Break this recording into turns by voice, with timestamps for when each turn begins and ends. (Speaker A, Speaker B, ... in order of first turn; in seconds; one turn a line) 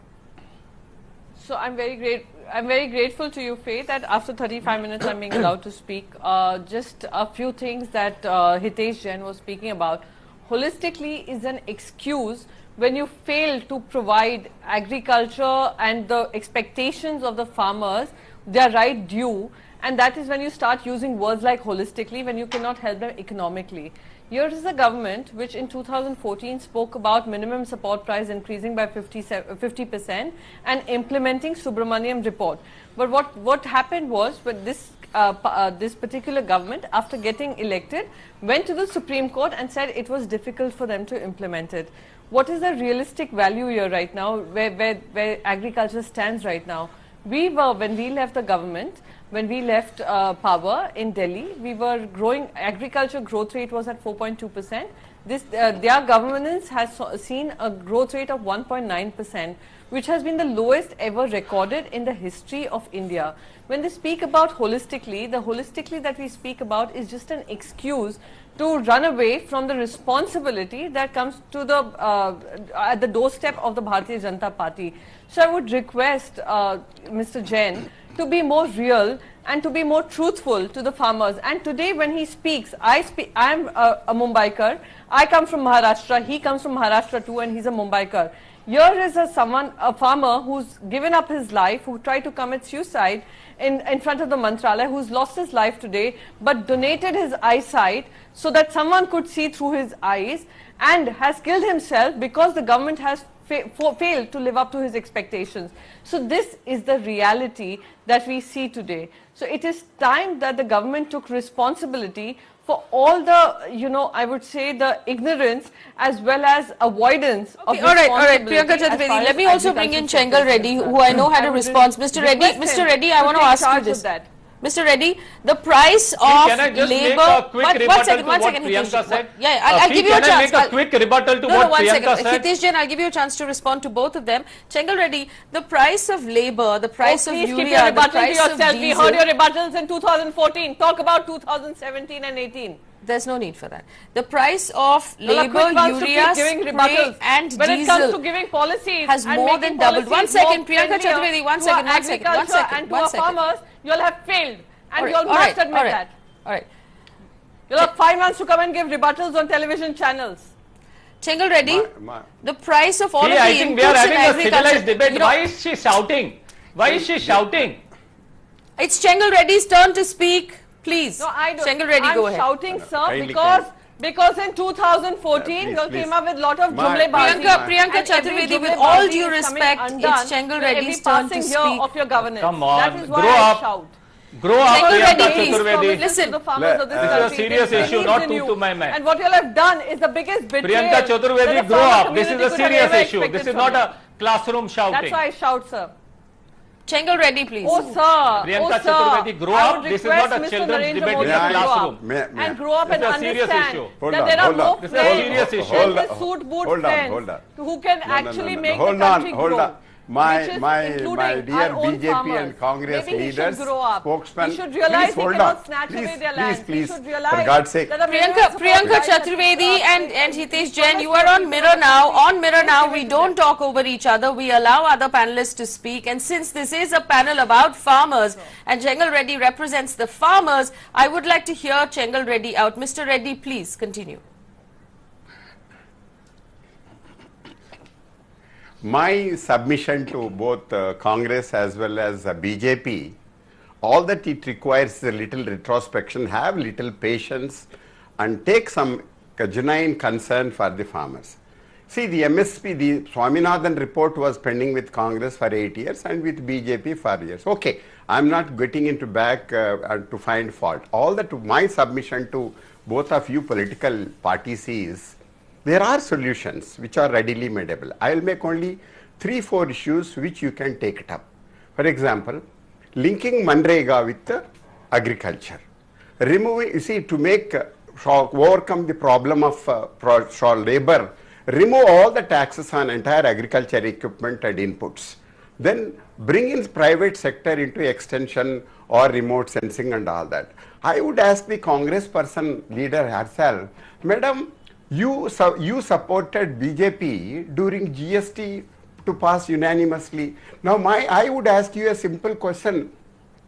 Speaker A: 1.4-124.3
Speaker B: 117.7-124.0
Speaker B: 124.6-130.7
Speaker C: 126.2-132.4
Speaker B: 131.5-139.2
Speaker A: 137.0-142.8
Speaker B: 143.0-148.2
Speaker A: 145.2-156.1
Speaker B: 149.0-153.4
Speaker B: 155.0-156.7
Speaker A: 157.7-160.5
Speaker B: 161.2-161.9
Speaker D: 161.6-162.2
Speaker B: 162.4-165.3
Speaker C: 163.2-167.8
Speaker D: 166.8-167.4
Speaker B: 168.8-172.5
Speaker A: 171.2-183.9
Speaker D: 172.7-173.7
Speaker D: 175.3-176.1
Speaker D: 176.7-177.7
Speaker B: 177.1-181.8
Speaker C: 182.2-183.7
Speaker C: 184.4-186.0
Speaker A: 184.6-193.8
Speaker B: 184.7-186.4
Speaker D: 186.5-188.3
Speaker C: 186.9-189.0
Speaker C: 190.6-195.2
Speaker A: 194.9-195.9
Speaker B: 196.9-198.0
Speaker A: 197.6-223.3
Speaker C: 198.4-202.0
Speaker D: 201.1-202.6
Speaker C: 202.9-203.9
Speaker D: 204.0-207.5
Speaker C: 204.4-206.0
Speaker D: 208.0-217.9
Speaker B: 218.1-234.2
Speaker D: 218.7-219.0
Speaker D: 238.8-243.2
Speaker D: 243.8-247.7
Speaker D: 248.2-251.4
Speaker D: 251.9-271.2
Speaker D: 271.8-272.4
Speaker D: 273.0-275.6
Speaker D: 276.2-302.9